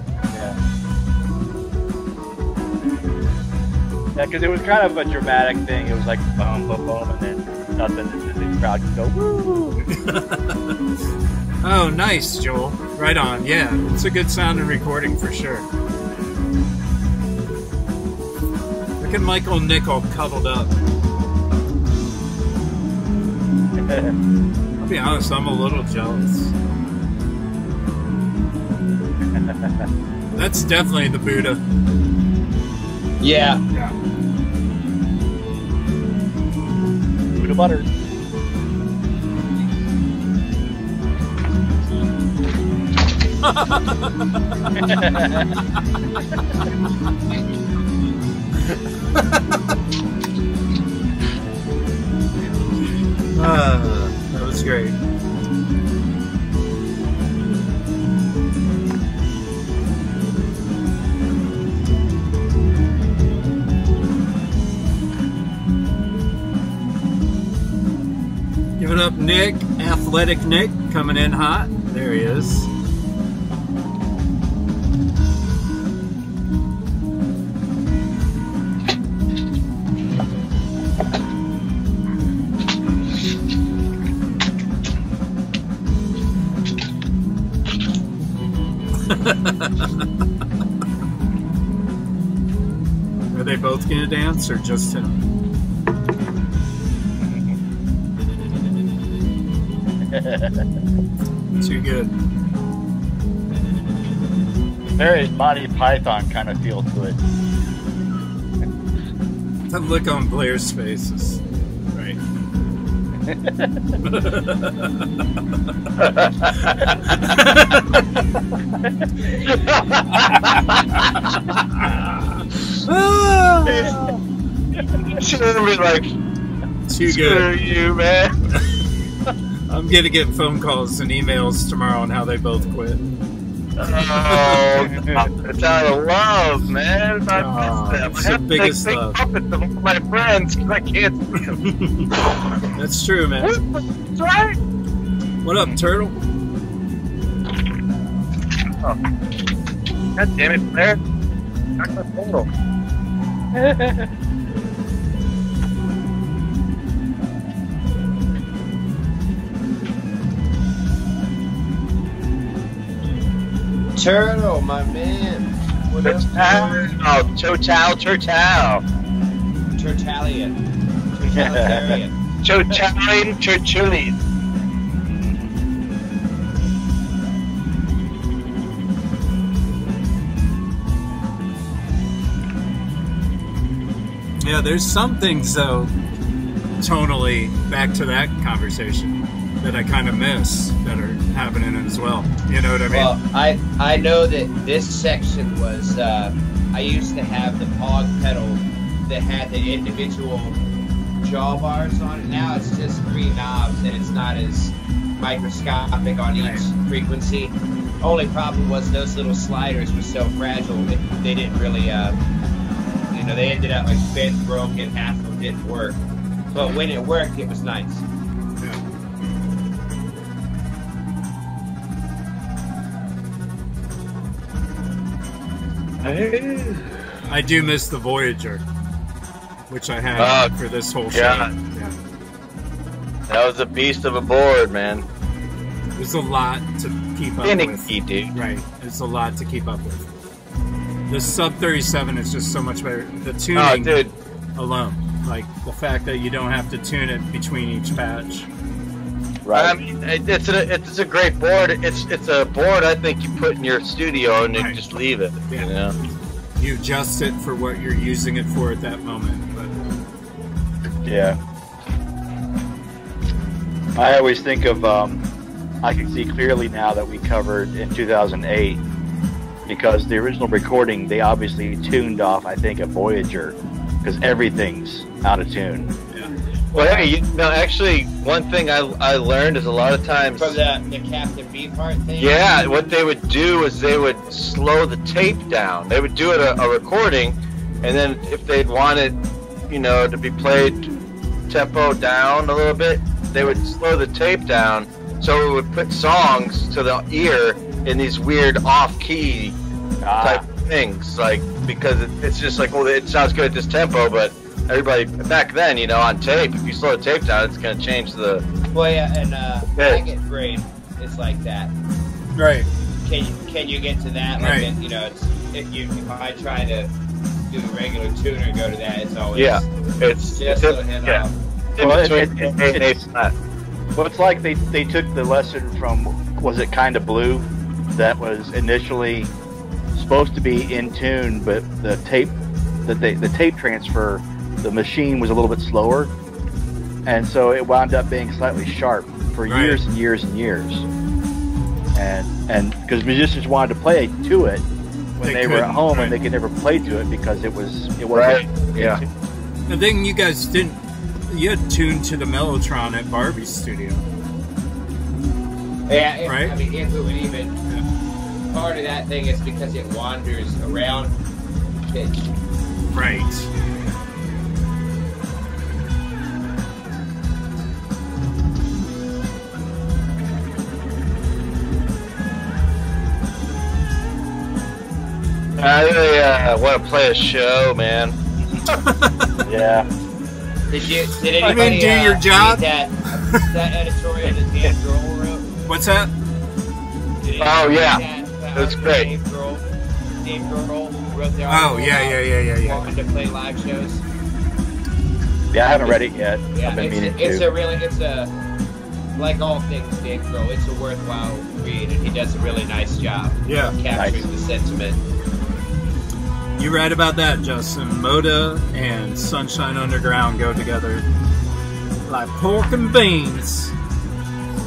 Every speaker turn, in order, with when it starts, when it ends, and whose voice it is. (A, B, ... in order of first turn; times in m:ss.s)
0:00.3-0:00.6 A
0:04.2-0:09.8 A
0:09.9-0:10.7 B
0:11.6-0:15.6 B
0:19.0-0:20.7 B
0:23.8-0:24.1 A
0:24.8-0:26.5 B
0:29.3-0:29.8 A
0:30.3-0:31.6 B
0:33.2-0:33.6 C
0:37.4-0:37.9 A
0:43.4-0:45.1 B
0:45.0-0:45.4 A
0:53.3-0:55.0 B
1:08.8-1:12.7 B
1:29.1-1:29.9 B
1:33.3-1:35.2 B
1:37.2-1:37.5 A
1:40.1-1:40.6 A
1:41.6-1:42.1 B
1:45.0-1:47.2 A
1:49.7-1:51.4 B
1:53.3-1:53.7 A
1:54.0-1:55.1 B
1:56.0-1:56.9 D
1:57.3-1:58.0 B
1:59.4-2:00.8 D
2:02.8-2:03.9 B
2:03.7-2:04.2 D
2:05.0-2:06.1 D
2:06.9-2:07.5 B
2:07.1-2:08.4 D
2:09.7-2:13.0 B
2:13.8-2:21.6 D
2:14.2-2:14.6 B
2:14.8-2:15.3 A
2:17.3-2:19.2 B
2:21.5-2:22.1 B
2:22.7-2:23.5 B
2:23.4-2:24.5 D
2:25.4-2:26.1 B
2:30.2-2:31.0 D
2:31.8-2:32.5 D
2:33.6-2:34.0 A
2:44.0-2:46.9 C
2:46.0-2:48.8 D
2:49.7-2:50.5 C
2:51.1-2:52.2 C
2:51.3-2:52.0 A
2:52.4-2:54.2 D
2:55.1-2:55.6 A
3:04.4-3:05.9 B
3:06.8-3:13.1 B
3:12.9-3:20.6 C
3:21.2-3:32.2 C
3:26.4-3:26.7 B
3:33.1-3:36.0 C
3:36.5-3:38.0 C
3:46.0-3:47.0 D
3:47.3-3:48.6 B
3:49.7-3:52.0 B
3:50.2-3:50.5 D
3:51.1-3:51.5 D
3:53.3-3:55.0 D
3:56.0-4:00.1 B
3:57.4-3:58.3 D
4:01.1-4:04.0 B
4:03.5-4:04.1 D
4:04.6-4:08.5 B
4:09.5-4:15.9 D
4:14.5-4:15.7 B
4:16.6-4:19.8 B
4:21.0-4:21.4 A
4:23.9-4:25.3 A
4:25.8-4:28.8 A
4:29.6-4:35.9 A
4:36.7-4:37.0 C
4:36.7-4:40.6 D
4:40.4-4:42.4 C
4:42.2-4:50.9 D
4:51.5-4:59.6 D
5:00.0-5:00.4 A
5:00.2-5:08.4 D
5:08.7-5:11.7 C
5:09.8-5:10.0 D
5:12.3-5:12.7 B
5:13.0-5:16.9 C
5:14.4-5:14.7 B
5:17.5-5:19.6 C
5:19.3-5:21.2 D
5:20.3-5:21.3 C
5:21.8-5:23.3 D
5:21.8-5:22.9 A
5:24.0-5:29.3 A
5:29.9-5:36.1 A
5:37.0-5:40.8 A
5:39.5-5:39.8 B
5:41.9-5:44.6 A
5:45.2-5:49.1 A
5:45.2-5:46.1 B
5:48.1-5:49.0 D
5:49.7-5:54.0 B
5:55.9-5:57.6 C
5:56.2-5:56.5 B
5:58.5-6:01.1 C
6:01.8-6:02.3 C
6:02.9-6:03.5 B
6:15.6-6:18.2 D
6:18.7-6:19.1 B
6:19.4-6:19.9 A
6:20.7-6:25.5 C
6:21.4-6:22.6 B
6:25.7-6:26.1 B
6:27.2-6:29.6 C
6:27.4-6:28.0 D
6:28.5-6:29.1 D
6:30.2-6:34.0 C
6:31.5-6:32.9 B
6:35.5-6:37.5 A
6:36.5-6:38.3 C
6:39.2-6:45.0 C
6:43.4-6:43.7 B
6:43.9-6:44.2 A
6:46.6-6:51.0 B
6:52.1-6:53.7 B